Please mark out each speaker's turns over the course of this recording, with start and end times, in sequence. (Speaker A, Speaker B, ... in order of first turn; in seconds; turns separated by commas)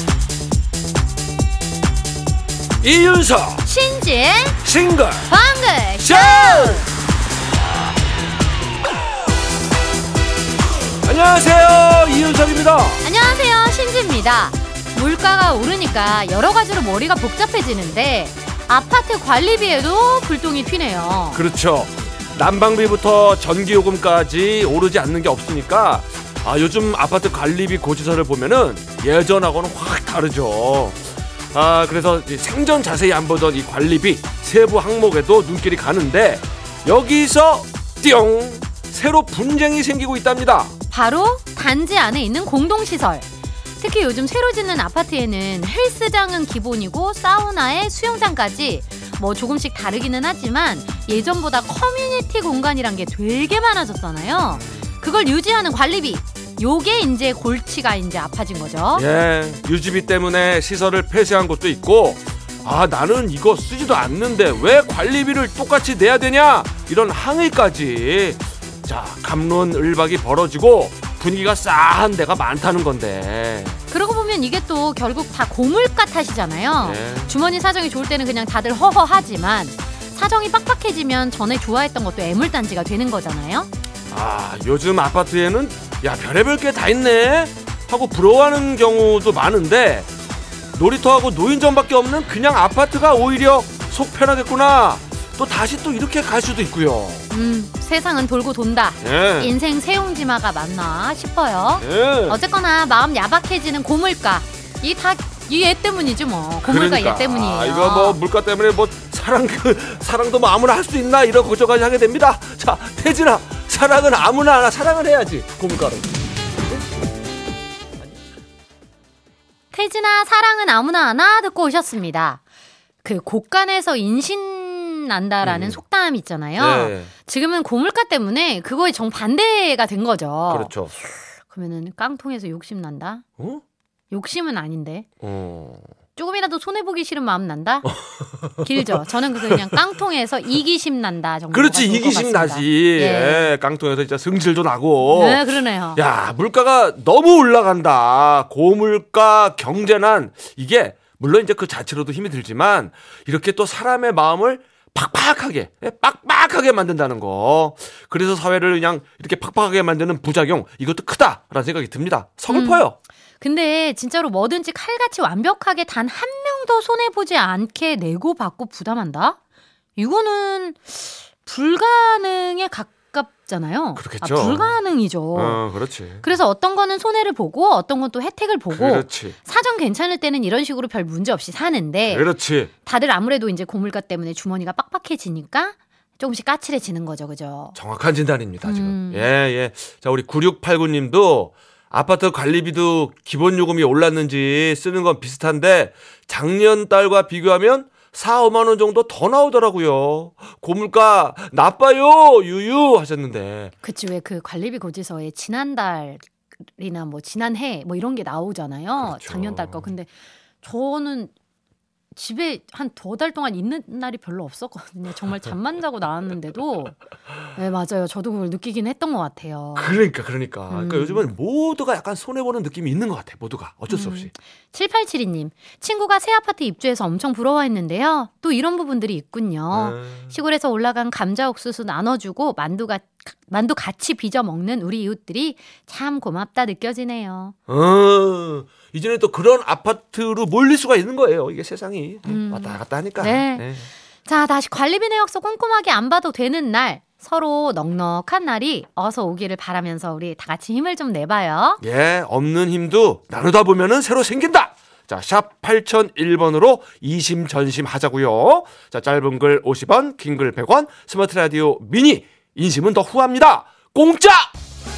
Speaker A: 2.8-3.7, Speaker B: 3.6-4.6, Speaker A: 4.6-5.3, Speaker B: 5.3-6.9, Speaker A: 6.0-6.9, Speaker A: 11.0-13.0, Speaker B: 13.0-21.4, Speaker A: 21.3-31.0, Speaker A: 31.5-40.7, Speaker B: 40.9-43.2, Speaker B: 43.8-59.0, Speaker A: 59.0-73.8, Speaker B: 73.9-83.7, Speaker A: 76.8-77.3, Speaker A: 84.1-90.1, Speaker A: 90.7-97.2, Speaker B: 97.3-108.2, Speaker A: 99.0-99.5, Speaker A: 101.8-102.4, Speaker A: 106.7-116.1, Speaker B: 119.7-122.4, Speaker B: 123.0-130.8, Speaker A: 125.4-125.8, Speaker A: 126.6-127.1, Speaker A: 130.5-130.9, Speaker B: 131.4-133.2, Speaker B: 134.1-135.1, Speaker A: 135.2-135.9, Speaker B: 136.2-137.9, Speaker A: 137.9-139.6, Speaker B: 138.6-143.5, Speaker A: 141.5-163.0, Speaker B: 145.1-146.0, Speaker B: 162.5-162.9, Speaker B: 163.4-169.4, Speaker B: 170.0-175.6, Speaker A: 174.0-174.8, Speaker A: 175.3-176.2, Speaker B: 176.2-182.3, Speaker A: 178.7-179.4, Speaker A: 182.1-182.7, Speaker B: 182.8-187.8, Speaker A: 187.8-203.7, Speaker B: 188.6-189.3, Speaker B: 203.8-210.1, Speaker A: 209.0-209.9, Speaker B: 210.6-211.3, Speaker B: 212.1-217.0, Speaker B: 217.5-220.0, Speaker A: 219.8-224.3, Speaker B: 220.7-221.3, Speaker B: 223.9-237.6, Speaker A: 229.7-230.3, Speaker A: 237.7-243.9, Speaker B: 242.3-243.7, Speaker B: 244.2-251.8, Speaker A: 251.8-264.5